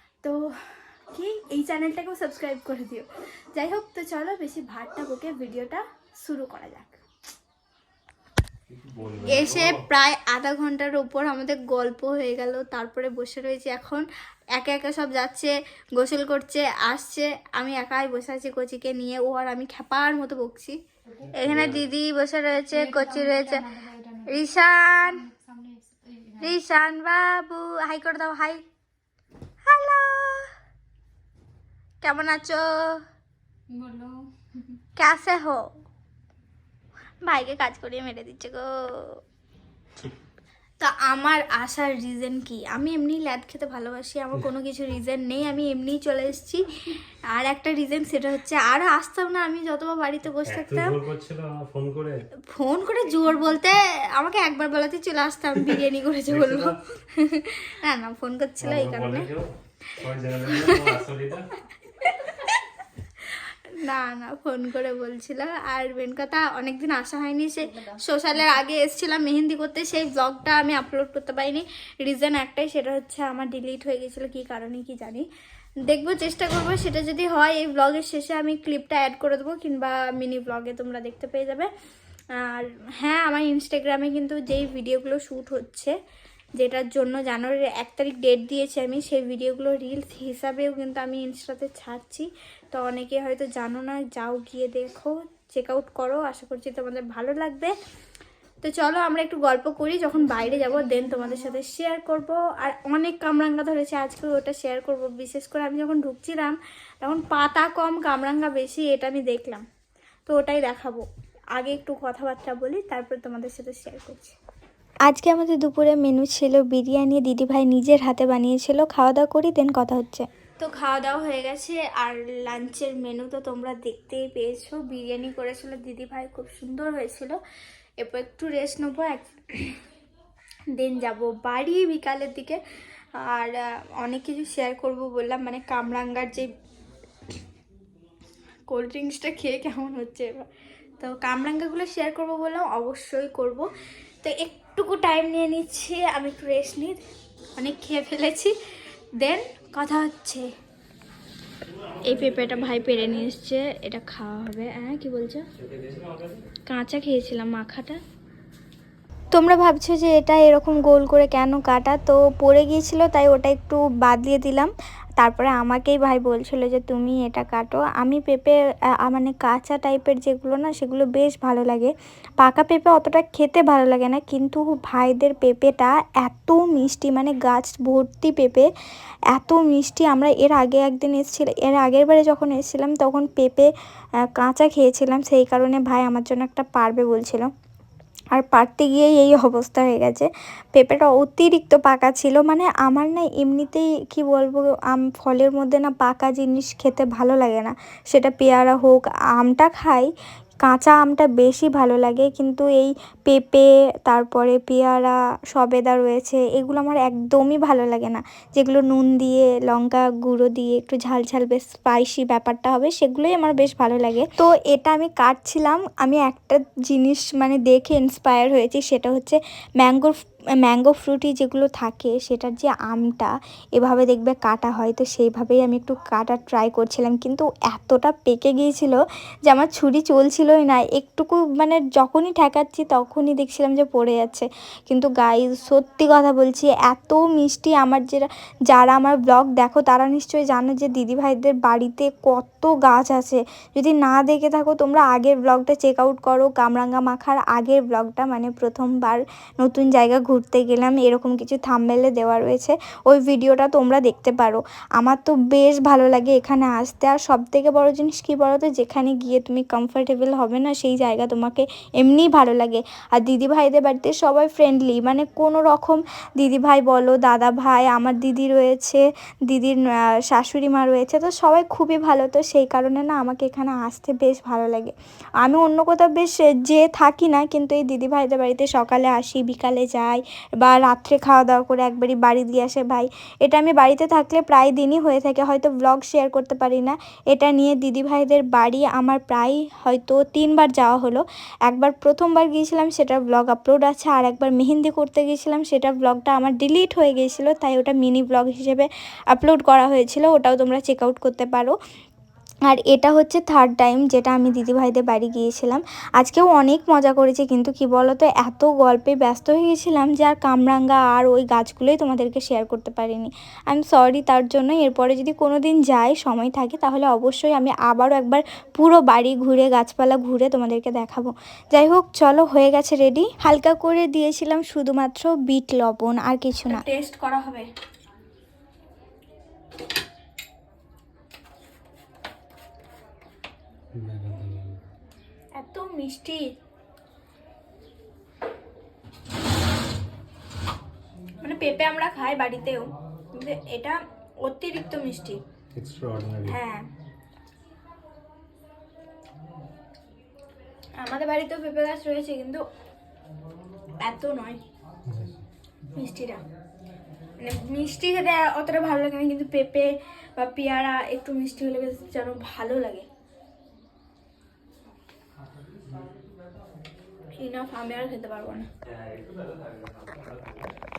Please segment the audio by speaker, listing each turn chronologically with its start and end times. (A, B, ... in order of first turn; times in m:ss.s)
0:00.2-0:07.0 A
0:08.7-0:09.8 B
0:09.2-0:20.8 A
0:21.1-0:21.4 C
0:21.3-0:23.6 A
0:21.4-0:21.8 B
0:22.6-0:24.4 C
0:24.2-0:25.2 A
0:25.0-0:26.6 C
0:26.4-0:28.6 A
0:29.6-0:30.5 A
0:32.0-0:33.0 A
0:33.7-0:34.7 C
0:35.0-0:35.6 A
0:37.2-0:39.2 A
0:40.8-0:51.0 A
0:50.4-0:52.2 B
0:52.5-0:59.3 A
0:56.3-0:56.8 B
0:58.6-1:01.5 B
1:00.5-1:01.0 A
1:01.8-1:02.6 A
1:03.2-1:15.3 A
1:07.8-1:08.1 C
1:15.9-1:21.7 A
1:22.4-1:25.9 A
1:26.6-1:37.7 A
1:38.6-1:49.6 A
1:40.4-1:41.1 C
1:50.2-1:54.4 A
1:55.1-2:07.4 A
2:08.0-2:09.8 A
2:10.8-2:12.6 A
2:13.2-2:16.5 A
2:18.7-2:20.5 A
2:21.0-2:23.7 A
2:24.2-2:27.0 A
2:27.6-2:28.5 A
2:29.2-2:30.5 A
2:32.0-2:35.4 A
2:35.6-2:36.4 B
2:36.6-2:38.0 A
2:39.3-2:58.7 A
2:59.3-3:03.7 A
3:04.3-3:07.5 A
3:08.3-3:20.1 A
3:20.6-5:01.8 A
5:02.7-5:27.7 A
5:34.0-5:34.8 B
5:35.6-5:36.4 A
5:41.4-5:45.4 A
5:45.7-5:46.6 B
5:46.4-5:46.8 A
5:51.0-5:52.6 A
5:54.0-5:54.6 A
5:55.1-5:55.4 B
5:56.0-5:56.4 A
5:57.4-6:03.0 A
6:07.3-6:08.6 A
6:09.0-6:10.5 B